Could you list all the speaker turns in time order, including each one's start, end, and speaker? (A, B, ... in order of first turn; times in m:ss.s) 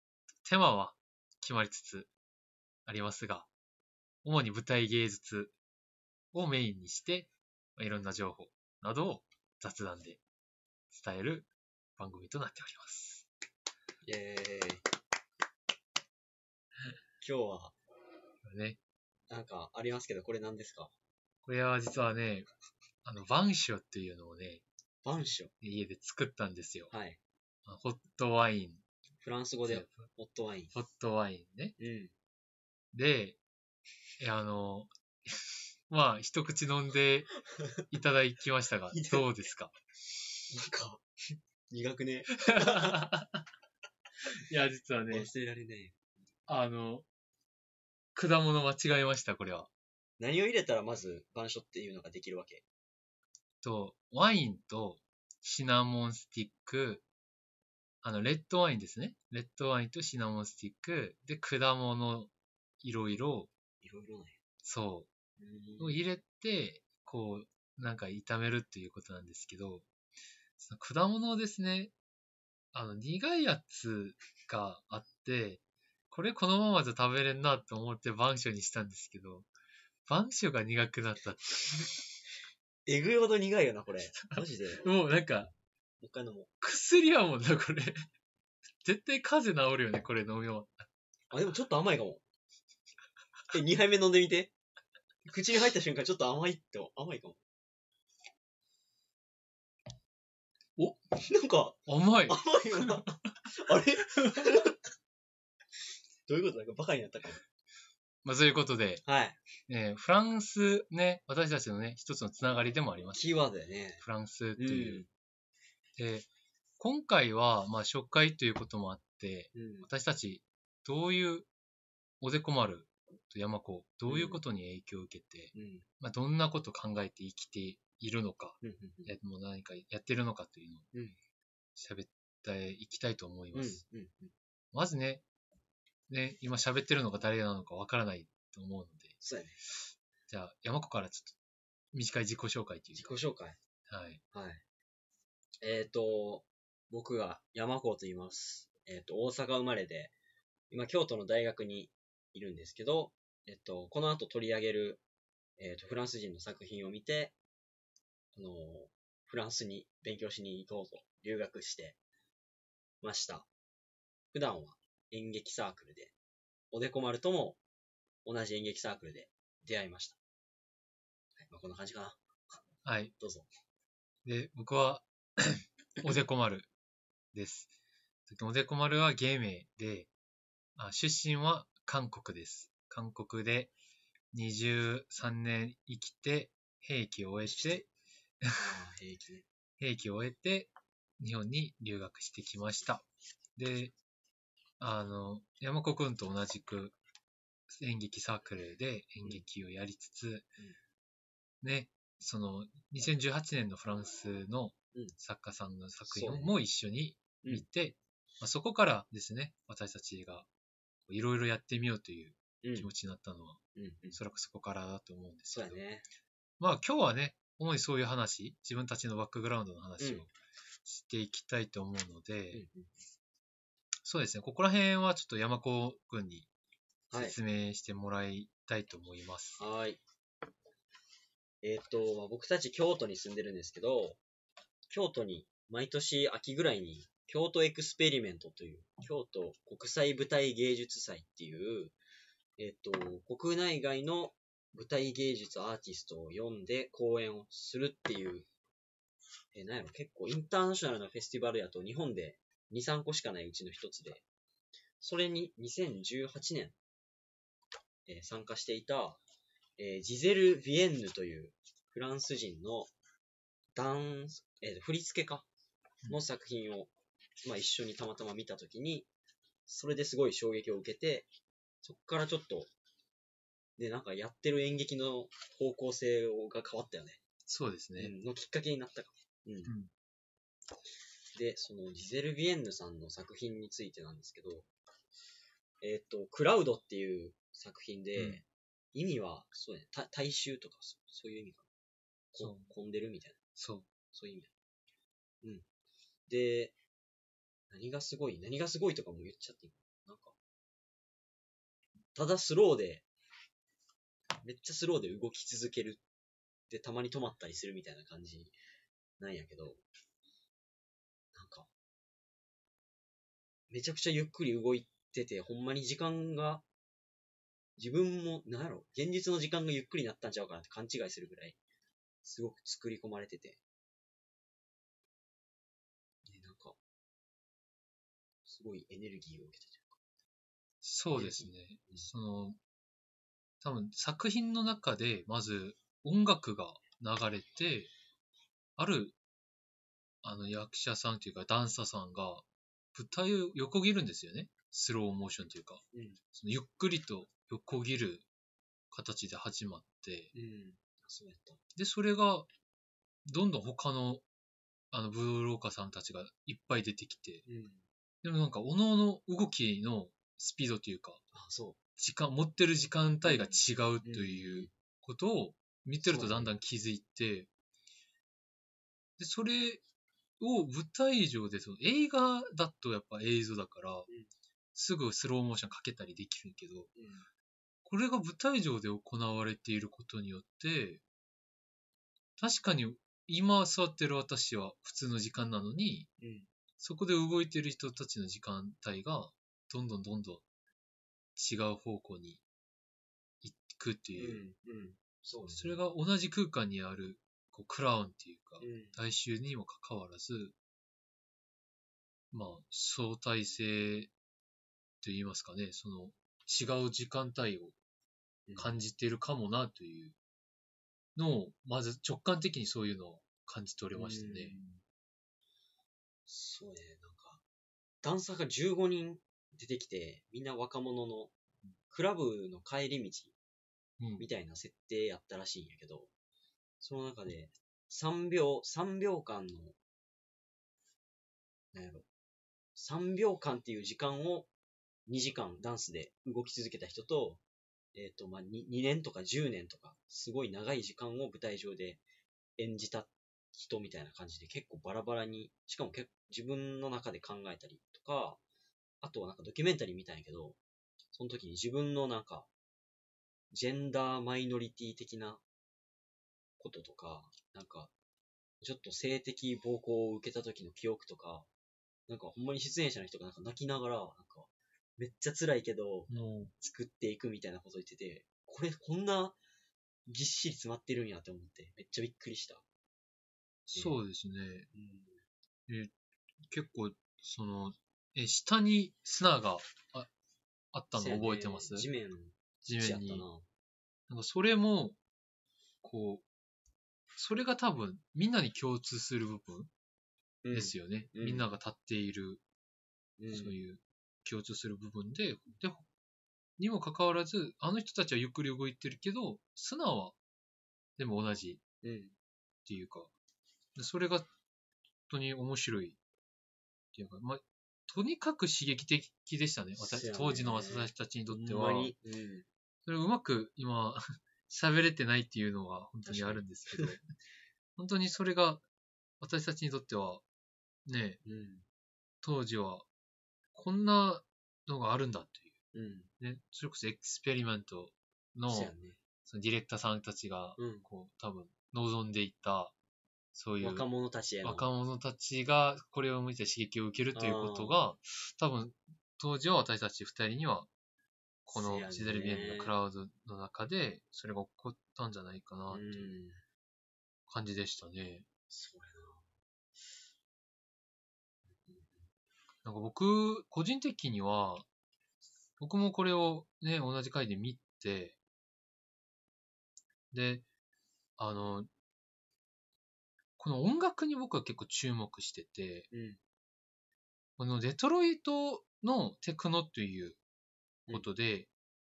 0:00.4-0:02.1 A
0:02.8-0:03.5 A
0:04.2-0:05.5 A
0:06.3-0:10.2 A
0:10.9-0:13.3 A
0:14.0-0:14.8 B
0:17.2-0:17.8 B
0:18.4-0:18.8 A
0:19.3-0:20.9 B
0:21.4-0:22.5 A
0:23.0-0:24.6 A
0:25.0-0:25.5 B
0:25.6-0:26.9 A
0:26.9-0:27.2 B
0:27.6-0:28.8 A
0:29.2-0:30.7 B
0:29.6-0:30.0 A
0:30.7-0:31.8 A
0:31.8-0:32.1 B
0:32.9-0:33.4 A
0:34.2-0:37.3 A
0:37.9-0:39.7 A
0:38.9-0:39.2 B
0:40.5-0:41.0 B
0:41.7-0:43.0 B
0:42.5-0:43.4 A
0:44.5-0:45.3 A
0:45.1-0:46.0 B
0:46.5-0:47.1 A
0:48.1-0:49.7 A
0:50.2-0:52.6 B
0:53.6-0:57.0 A
0:58.0-1:03.5 A
1:03.8-1:04.4 B
1:04.6-1:05.1 A
1:05.4-1:06.0 B
1:05.8-1:09.9 A
1:10.6-1:11.9 A
1:12.7-1:19.5 A
1:20.1-1:21.7 A
1:22.9-1:24.9 B
1:24.2-1:25.5 A
1:26.0-1:26.5 B
1:26.6-1:27.9 A
1:28.8-1:30.9 A
1:31.3-1:32.2 B
1:33.5-1:34.5 B
1:35.2-1:37.4 B
1:41.2-1:44.8 B
1:41.9-1:43.1 A
1:46.3-1:47.4 B
1:48.2-1:49.0 A
1:49.0-1:49.4 B
1:49.7-1:53.4 A
1:53.1-1:54.0 B
1:54.0-1:55.0 A
1:54.6-1:55.1 B
1:56.0-1:56.3 A
1:56.8-2:01.5 A
1:59.5-1:59.9 B
2:02.2-2:10.9 A
2:04.0-2:04.4 B
2:05.5-2:05.8 B
2:08.6-2:09.1 B
2:11.8-2:13.8 A
2:13.5-2:14.3 B
2:14.7-2:15.2 A
2:16.1-2:19.2 A
2:19.2-2:19.6 B
2:20.3-2:21.4 A
2:21.9-2:23.2 A
2:22.9-2:23.6 B
2:23.9-2:24.2 A
2:24.3-2:24.6 B
2:25.6-2:30.1 B
2:30.7-2:35.0 B
2:35.6-2:37.3 B
2:38.3-2:42.0 B
2:43.0-2:43.5 B
2:44.3-2:46.1 B
2:46.7-2:47.6 B
2:48.2-2:50.2 B
2:51.4-2:52.2 B
2:52.8-2:53.1 A
2:53.2-2:53.5 B
2:54.2-2:56.7 A
2:57.3-2:57.7 A
2:58.3-3:00.1 A
3:00.8-3:03.7 A
3:04.3-3:07.9 A
3:07.5-3:07.8 B
3:08.5-3:09.4 B
3:09.8-3:13.0 A
3:13.6-3:13.9 A
3:14.8-3:17.0 A
3:17.7-3:20.5 A
3:21.6-3:30.5 A
3:26.0-3:26.6 B
3:31.1-3:33.6 A
3:32.6-3:32.9 B
3:33.7-3:34.2 B
3:34.1-3:35.8 A
3:35.5-3:36.1 B
3:36.6-3:40.3 A
3:40.0-3:40.3 B
3:40.8-3:42.6 A
3:42.5-3:42.9 B
3:44.0-3:46.5 A
3:47.1-3:47.4 B
3:47.1-3:49.6 A
3:49.6-3:50.0 B
3:51.6-3:54.2 B
3:54.9-4:01.9 B
4:02.6-4:08.5 B
4:09.5-4:14.2 B
4:15.0-4:16.8 B
4:18.0-4:19.2 B
4:19.8-4:22.9 B
4:23.7-4:25.5 B
4:26.1-4:26.9 B
4:27.4-4:29.1 B
4:29.7-4:31.3 B
4:31.8-4:32.7 B
4:33.8-4:37.2 B
4:37.4-4:38.1 A
4:38.0-4:39.7 B
4:41.3-4:44.7 B
4:45.8-4:51.7 B
4:48.2-4:48.4 A
4:52.3-4:53.4 B
4:52.4-4:52.7 A
4:53.6-4:53.9 A
4:54.1-4:54.5 B
4:56.3-4:56.7 B
4:57.7-5:00.3 B
5:02.1-5:03.0 B
5:04.4-5:06.0 B
5:06.7-5:08.5 B
5:09.2-5:09.8 B
5:11.3-5:11.7 B
5:13.7-5:16.6 B
5:17.8-5:21.6 B
5:22.2-5:23.6 B
5:26.3-5:26.8 B
5:28.4-5:30.0 B
5:30.8-5:32.6 A
5:31.1-5:32.1 B
5:33.6-5:37.9 A
5:38.8-5:39.2 A
5:40.2-5:45.8 A
5:45.9-5:46.2 B
5:46.3-5:48.3 A
5:48.9-5:50.3 A
5:50.3-5:51.6 B
5:51.7-5:52.5 A
5:53.2-5:54.2 A
5:54.9-5:57.4 A
5:57.4-5:57.8 B
5:58.2-6:01.2 A
6:01.3-6:01.8 B
6:02.0-6:07.5 A
6:03.2-6:04.7 B
6:06.0-6:06.6 B
6:09.2-6:09.8 A
6:10.4-6:14.1 A
6:14.7-6:16.9 A
6:16.9-6:17.2 B
6:17.8-6:21.0 A
6:22.4-6:26.1 A
6:26.2-6:26.5 B
6:26.8-6:30.4 A
6:31.4-6:32.4 A
6:33.4-6:34.4 A
6:34.2-6:35.8 B
6:35.5-6:40.6 A
6:38.6-6:39.0 B
6:42.3-6:44.1 A
6:45.0-6:47.7 A
6:48.5-6:48.8 B
6:48.6-6:50.2 A
6:51.2-6:54.6 A
6:53.9-6:54.8 B
6:56.3-6:57.4 B
6:58.0-7:01.3 B
7:01.9-7:03.3 B
7:04.0-7:04.2 A
7:04.2-7:06.1 B
7:06.8-7:09.8 B
7:11.7-7:12.1 B
7:12.7-7:14.5 B
7:15.1-7:17.4 B
7:17.9-7:22.0 B
7:22.6-7:28.4 B
7:29.0-7:30.6 B
7:31.1-7:32.5 B
7:33.5-7:35.4 B
7:36.6-7:37.9 B
7:38.6-7:41.5 B
7:42.1-7:49.4 B
7:46.1-7:46.5 A
7:50.1-7:52.6 B
7:53.7-7:54.7 A
7:53.7-7:54.0 B
7:54.7-7:55.2 B
7:56.5-8:00.1 A
8:00.7-8:01.9 A
8:00.9-8:03.4 B
8:02.6-8:03.2 A
8:04.1-8:05.0 A
8:05.8-8:06.2 A
8:07.1-8:09.7 A
8:10.4-8:11.5 B
8:10.5-8:12.4 A
8:13.2-8:13.6 B
8:13.3-8:15.9 A
8:16.6-8:20.2 A
8:21.0-8:21.6 A
8:21.8-8:22.2 B
8:22.6-8:23.1 A
8:23.8-8:24.3 A
8:25.1-8:26.0 A
8:26.9-8:31.9 A
8:29.8-8:32.5 B
8:32.8-8:37.0 A
8:36.0-8:36.9 B
8:37.8-8:38.6 A
8:39.2-8:40.2 A
8:40.8-8:41.2 A
8:41.2-8:41.6 B
8:42.2-8:42.9 A
8:43.5-8:45.5 A
8:45.7-8:46.1 B
8:46.2-8:48.7 A
8:48.5-8:49.0 B
8:49.2-8:52.7 A
8:50.6-8:50.9 B
8:53.3-8:53.9 A
8:53.6-8:54.7 B
8:54.4-9:00.7 A
8:57.1-8:57.8 B
9:01.4-9:02.8 B
9:01.5-9:06.1 A
9:05.7-9:06.4 B
9:07.3-9:08.2 A
9:08.5-9:09.2 B
9:11.6-9:12.1 B
9:12.6-9:14.6 A
9:15.6-9:18.2 A
9:20.1-9:20.4 A
9:21.2-9:21.7 A
9:23.4-9:25.9 A
9:25.9-9:26.2 B
9:27.4-9:30.2 A
9:30.9-9:31.5 A